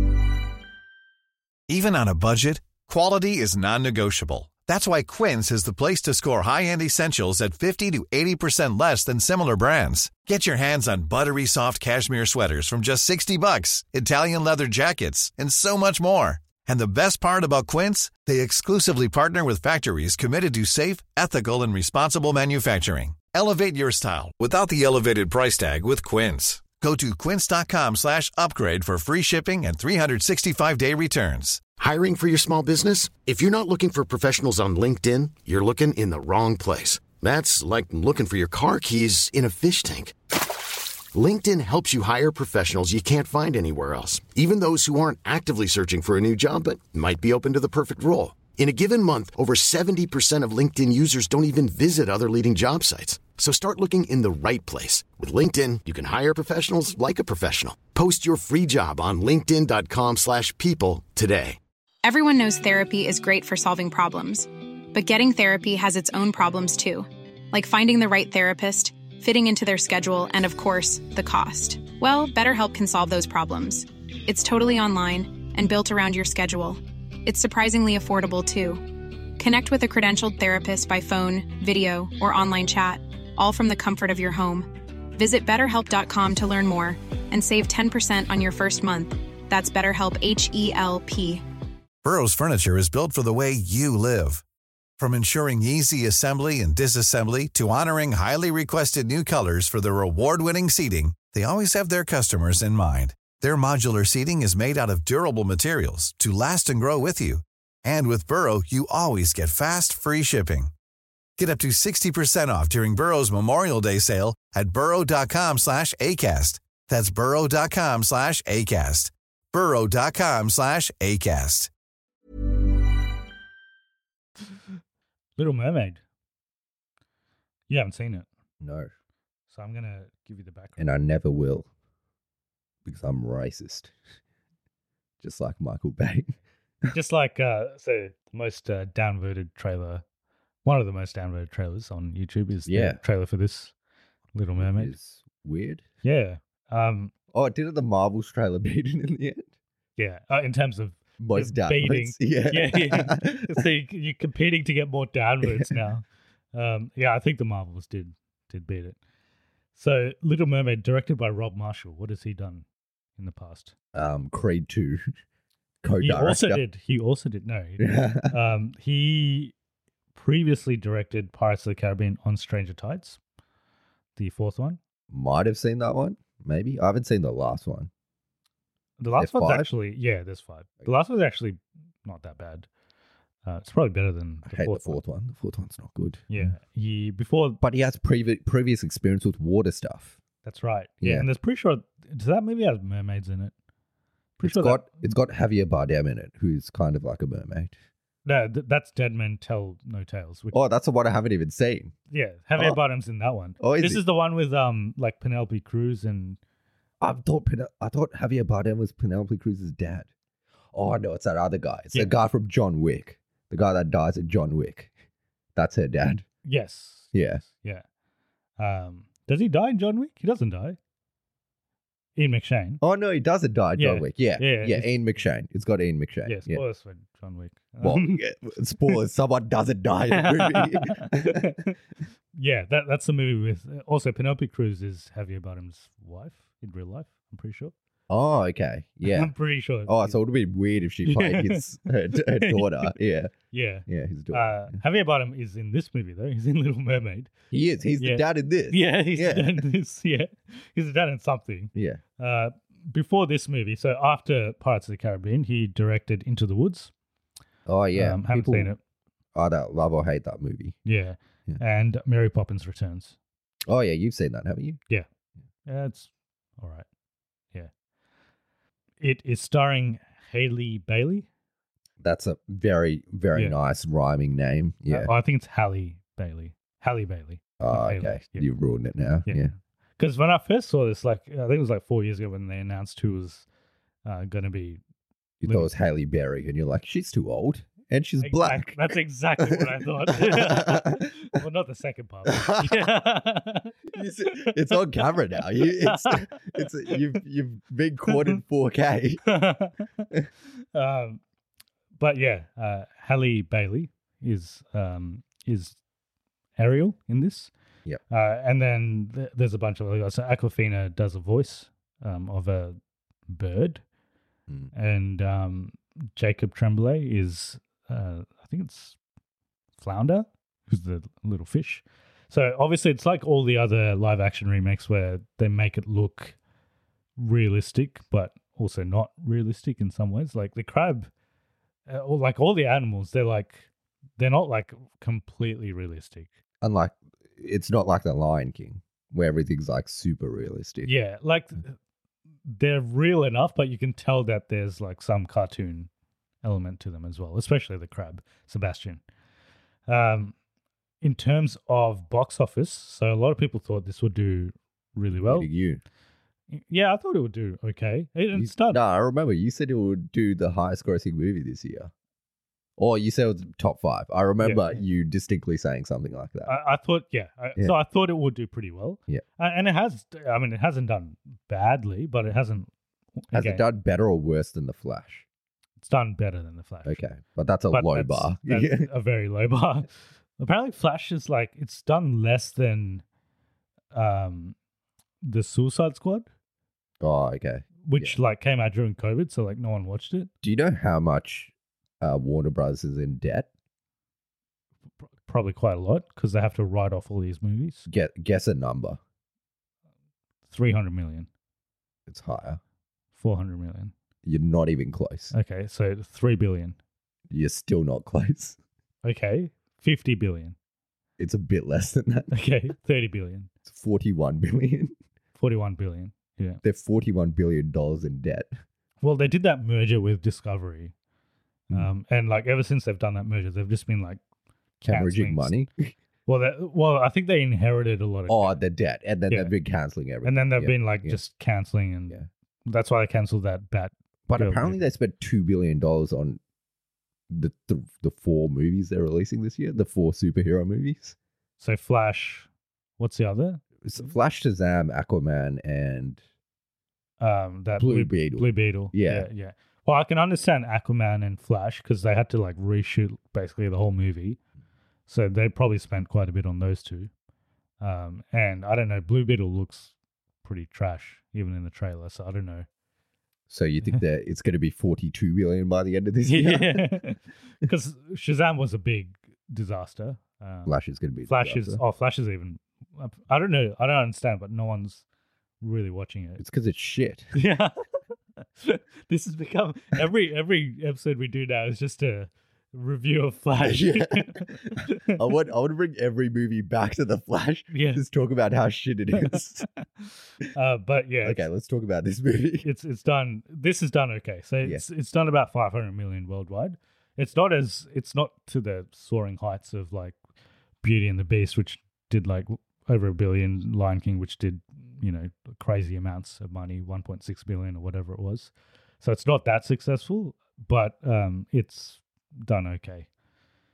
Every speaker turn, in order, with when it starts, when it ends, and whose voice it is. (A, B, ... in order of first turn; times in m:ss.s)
0:01.7-0:31.6 A
0:31.8-0:40.1 B
0:41.1-1:01.6 B
1:02.0-1:31.4 C
1:32.0-1:34.4 A
1:35.0-1:50.7 A
1:51.4-2:01.7 A
2:05.4-2:06.0 D
2:07.7-2:08.3 D
2:08.6-2:08.9 E
2:09.5-2:10.8 D
2:10.8-2:11.7 E
2:12.8-2:13.9 E
2:15.2-2:16.4 E
2:16.9-2:20.0 D
2:20.6-2:23.7 D
2:22.7-2:23.0 E
2:24.3-2:24.9 D
2:24.6-2:25.8 E
2:26.0-2:27.1 D
2:27.3-2:29.5 E
2:30.0-2:39.0 D
2:31.2-2:33.6 E
2:35.4-2:35.7 E
2:39.8-2:42.6 D
2:43.2-2:43.7 D
2:43.9-2:45.1 E
2:45.8-2:46.6 E
2:46.0-2:49.5 D
2:47.8-2:48.3 E
2:50.1-2:53.2 D
2:54.2-2:54.8 D
2:55.1-2:57.9 E
2:59.0-3:02.7 D
2:59.2-2:59.7 E
3:03.4-3:05.0 D
3:04.5-3:06.5 E
3:06.3-3:07.6 D
3:07.6-3:10.2 E
3:10.4-3:13.5 D
3:11.0-3:11.3 E
3:14.4-3:15.1 D
3:14.4-3:17.8 E
3:18.2-3:20.6 D
3:20.5-3:21.9 E
3:22.1-3:26.4 D
3:23.6-3:24.0 E
3:27.0-3:30.1 E
3:30.7-3:34.9 E
3:35.6-3:36.3 E
3:36.4-3:37.8 D
3:37.1-3:37.4 E
3:38.6-3:40.8 D
3:42.2-3:42.8 D
3:42.8-3:46.6 E
3:43.8-3:44.9 D
3:46.2-3:48.2 D
3:47.8-3:51.5 E
3:50.1-3:51.8 D
3:52.4-3:57.7 D
3:58.1-3:59.3 E
3:59.1-4:00.1 D
3:59.8-4:03.3 E
4:01.1-4:02.9 D
4:03.5-4:07.3 D
4:03.9-4:04.8 E
4:07.5-4:09.6 E
4:08.0-4:16.9 D
4:11.8-4:12.0 E
4:17.7-4:18.7 E
4:17.9-4:18.8 D
4:19.4-4:20.8 E
4:20.9-4:23.2 D
4:23.7-4:24.8 E
4:25.7-4:26.9 D
4:29.0-4:31.3 D
4:32.0-4:35.1 E
4:34.9-4:38.5 D
4:37.6-4:39.5 E
4:39.3-4:43.4 D
4:44.0-4:44.8 D
4:45.4-4:48.9 E
4:45.4-4:45.7 D
4:48.2-4:53.8 D
4:49.4-4:51.1 E
4:52.3-4:52.9 E
4:53.9-4:59.2 E
4:54.3-4:54.8 D
4:55.6-4:57.0 D
4:59.2-5:00.1 D
5:00.7-5:01.2 D
5:02.0-5:05.8 D
5:06.6-5:07.5 D
5:08.1-5:12.8 D
5:13.3-5:13.8 D
5:14.7-5:19.0 D
5:19.8-5:26.4 D
5:27.2-5:31.1 D
5:31.9-5:36.3 D
5:36.6-5:40.9 E
5:40.8-5:41.7 D
5:42.5-5:45.9 D
5:46.4-5:49.0 D
5:49.9-5:50.4 D
5:51.0-5:55.5 D
5:55.1-5:55.8 E
5:56.5-5:58.8 D
5:58.3-6:01.9 E
6:02.8-6:06.5 E
6:04.4-6:04.8 D
6:06.4-6:12.7 D
6:13.2-6:13.6 D
6:13.3-6:15.2 E
6:15.8-6:17.0 D
6:16.8-6:18.9 E
6:17.7-6:23.0 D
6:23.9-6:24.6 D
6:25.2-6:26.3 D
6:27.0-6:28.2 E
6:27.8-6:30.3 D
6:30.4-6:33.5 E
6:35.2-6:37.9 D
6:37.9-6:39.0 E
6:40.5-6:41.3 D
6:42.1-6:42.6 E
6:43.2-6:43.9 D
6:44.2-6:45.3 E
6:45.3-6:46.8 D
6:47.3-6:48.6 E
6:49.0-6:50.6 D
6:51.2-6:52.3 E
6:52.3-6:53.5 D
6:53.7-6:54.9 E
6:55.4-6:56.6 D
6:56.6-6:58.5 E
6:59.0-7:00.9 D
7:01.7-7:04.2 D
7:04.8-7:05.6 D
7:04.8-7:05.9 E
7:06.3-7:08.6 D
7:08.3-7:11.2 E
7:10.2-7:14.8 D
7:14.3-7:16.4 E
7:17.3-7:21.2 E
7:21.6-7:22.5 D
7:23.0-7:24.1 D
7:23.8-7:26.2 E
7:27.2-7:34.4 D
7:27.8-7:29.3 E
7:35.1-7:37.1 D
7:37.8-7:39.9 D
7:40.4-7:42.7 D
7:43.5-7:47.0 E
7:46.3-7:50.7 D
7:50.7-7:51.8 E
7:51.2-7:55.0 D
7:55.6-7:56.4 D
7:56.4-7:57.3 E
7:57.4-7:57.7 D
7:58.6-8:05.1 D
8:03.6-8:09.7 E
8:07.7-8:08.0 D
8:10.5-8:11.4 D
8:11.2-8:12.7 E
8:12.6-8:20.2 D
8:20.8-8:33.1 D